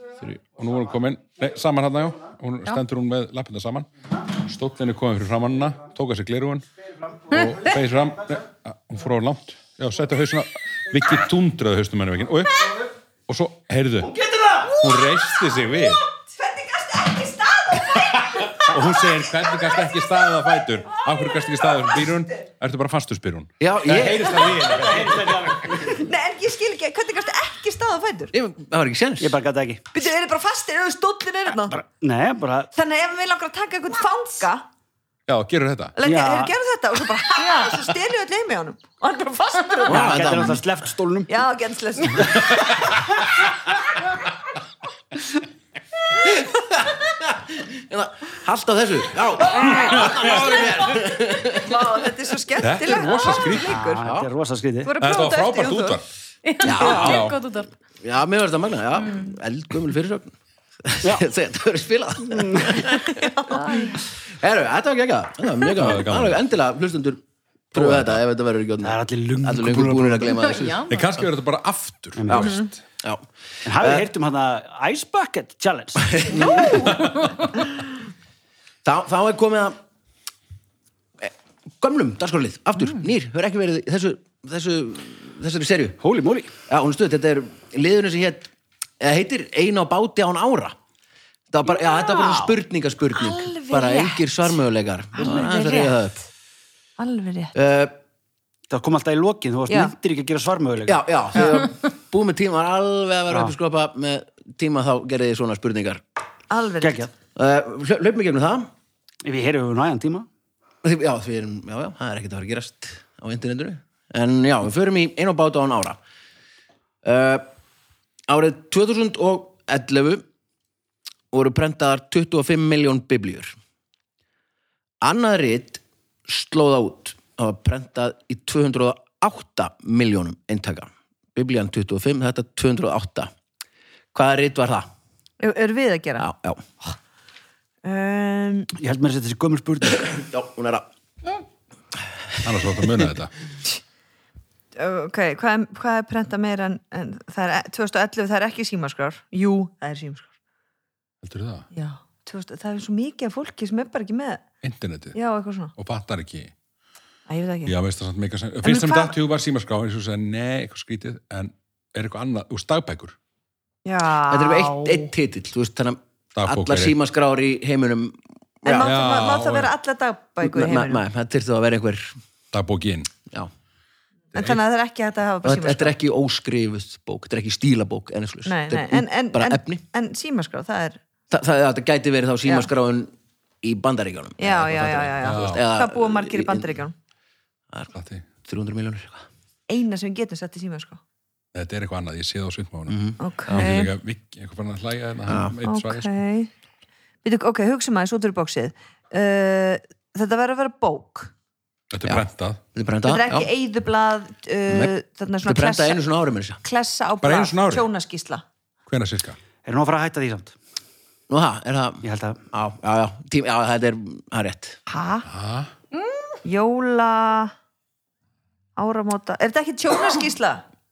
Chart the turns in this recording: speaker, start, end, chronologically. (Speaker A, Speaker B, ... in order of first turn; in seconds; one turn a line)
Speaker A: 0.2-6.7
Speaker B: 7.1-7.5
Speaker A: 7.3-14.2
Speaker C: 7.3-7.7
Speaker B: 14.1-14.7
Speaker A: 14.7-16.0
Speaker D: 14.7-19.1
Speaker A: 17.9-25.8
Speaker E: 23.6-24.4
Speaker B: 24.7-26.0
Speaker D: 25.8-28.3
Speaker E: 28.3-29.4
Speaker B: 29.2-29.9
Speaker D: 29.9-31.8
Speaker B: 31.8-32.7
Speaker D: 32.7-34.7
Speaker A: 35.3-35.9
Speaker D: 36.0-40.3
Speaker B: 36.0-36.5
Speaker E: 39.9-40.6
Speaker B: 39.9-41.4
Speaker D: 41.3-43.0
Speaker E: 46.1-52.0
Speaker A: 49.6-50.8
Speaker D: 51.5-54.1
Speaker A: 52.6-53.8
Speaker B: 53.6-54.9
Speaker E: 54.0-54.3
Speaker D: 54.8-56.0
Speaker A: 55.0-56.1
Speaker C: 56.5-57.7
Speaker E: 56.6-57.4
Speaker A: 56.8-57.4
Speaker E: 58.0-63.3
Speaker B: 62.3-62.8
Speaker D: 63.1-64.0
Speaker C: 63.5-64.0
Speaker E: 64.3-67.2
Speaker A: 65.7-66.4
Speaker A: 67.7-68.2
Speaker E: 67.7-71.2
Speaker B: 68.8-70.4
Speaker C: 70.3-71.1
Speaker A: 70.9-72.8
Speaker B: 72.2-72.6
Speaker E: 72.3-74.1
Speaker B: 73.7-77.0
Speaker E: 76.0-76.9
Speaker A: 76.8-77.2
Speaker E: 78.8-79.8
Speaker E: 81.2-86.0
Speaker B: 86.0-86.5
Speaker E: 86.7-90.8
Speaker E: 91.5-96.3
Speaker D: 91.8-92.5
Speaker D: 93.2-94.6
Speaker D: 95.2-96.0
Speaker D: 97.0-97.5
Speaker E: 97.5-98.0
Speaker B: 98.7-101.4
Speaker E: 100.8-106.0
Speaker D: 101.4-101.6
Speaker D: 106.5-107.1
Speaker B: 106.8-107.1
Speaker E: 107.4-108.7
Speaker B: 109.2-110.3
Speaker E: 110.8-116.0
Speaker E: 117.0-117.5
Speaker E: 118.3-120.2
Speaker E: 121.3-123.6
Speaker E: 125.0-133.3
Speaker E: 134.1-134.9
Speaker D: 135.4-136.3
Speaker E: 136.2-136.6
Speaker D: 137.8-138.7
Speaker B: 138.8-140.1
Speaker E: 139.9-140.9
Speaker A: 142.4-143.3
Speaker D: 144.8-150.3
Speaker A: 151.2-151.7
Speaker D: 151.7-154.4
Speaker A: 154.6-155.2
Speaker D: 155.1-155.7
Speaker A: 155.8-156.5
Speaker D: 157.3-157.8
Speaker A: 157.7-163.2
Speaker D: 158.6-159.2
Speaker D: 163.8-165.1
Speaker E: 164.2-169.0
Speaker A: 166.4-167.0
Speaker D: 168.7-171.0
Speaker A: 168.8-169.7
Speaker E: 170.4-172.2
Speaker A: 172.5-173.1
Speaker D: 174.3-176.0
Speaker E: 175.4-179.8
Speaker D: 178.5-181.0
Speaker E: 181.3-186.8
Speaker D: 184.4-186.9
Speaker A: 185.2-185.7
Speaker A: 187.9-188.3
Speaker E: 188.4-189.3
Speaker D: 189.7-191.0
Speaker A: 191.5-196.2
Speaker E: 192.9-193.6
Speaker D: 193.2-193.9
Speaker E: 195.3-195.6
Speaker D: 195.7-196.5
Speaker D: 197.2-201.3
Speaker A: 201.9-202.6
Speaker E: 202.1-203.5
Speaker D: 203.1-206.0
Speaker E: 204.7-206.6
Speaker D: 206.6-208.4
Speaker A: 207.2-207.9
Speaker A: 208.9-209.4
Speaker B: 209.6-210.6
Speaker E: 211.3-214.8
Speaker B: 212.0-212.4
Speaker D: 214.9-215.3
Speaker A: 215.2-215.7
Speaker C: 215.9-216.4
Speaker D: 216.4-217.5
Speaker D: 218.8-220.6